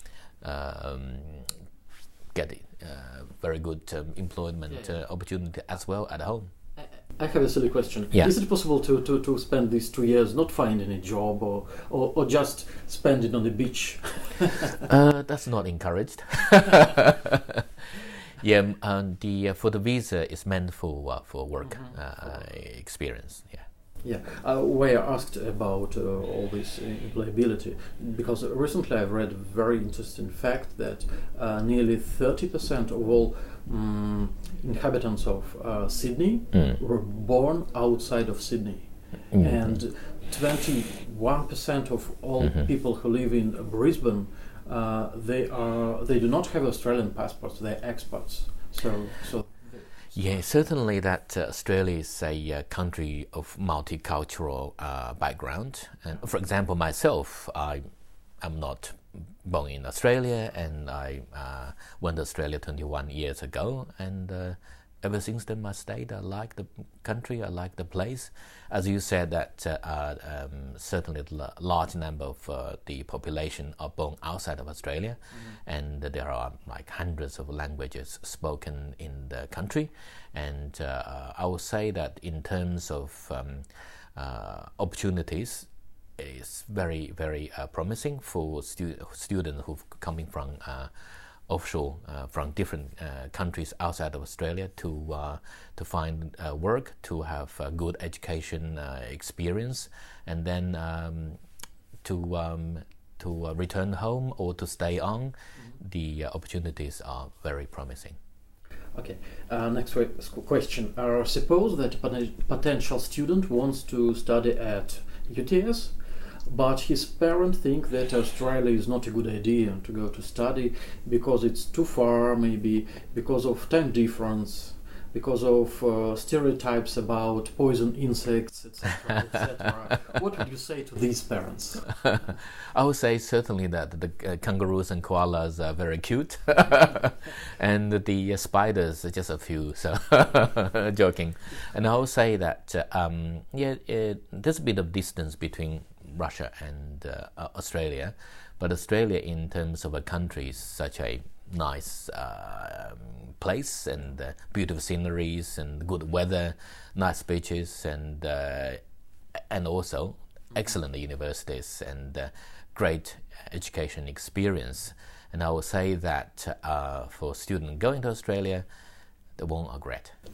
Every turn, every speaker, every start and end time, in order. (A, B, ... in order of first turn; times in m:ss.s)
0:00.4-0:01.6 A
0:02.3-0:06.5 A
0:04.7-0:05.0 B
0:06.8-0:14.8 B
0:14.9-0:17.4 A
0:18.4-0:23.6 A
0:21.6-0:22.6 B
0:24.0-0:50.4 B
0:36.5-0:36.8 A
0:39.3-0:39.7 A
0:50.1-0:57.8 A
0:58.4-1:41.4 A
1:15.3-1:15.6 B
1:42.0-1:48.2 A
1:49.0-2:12.0 B
2:12.0-2:38.8 A
2:39.5-2:48.7 A
2:49.4-2:50.1 A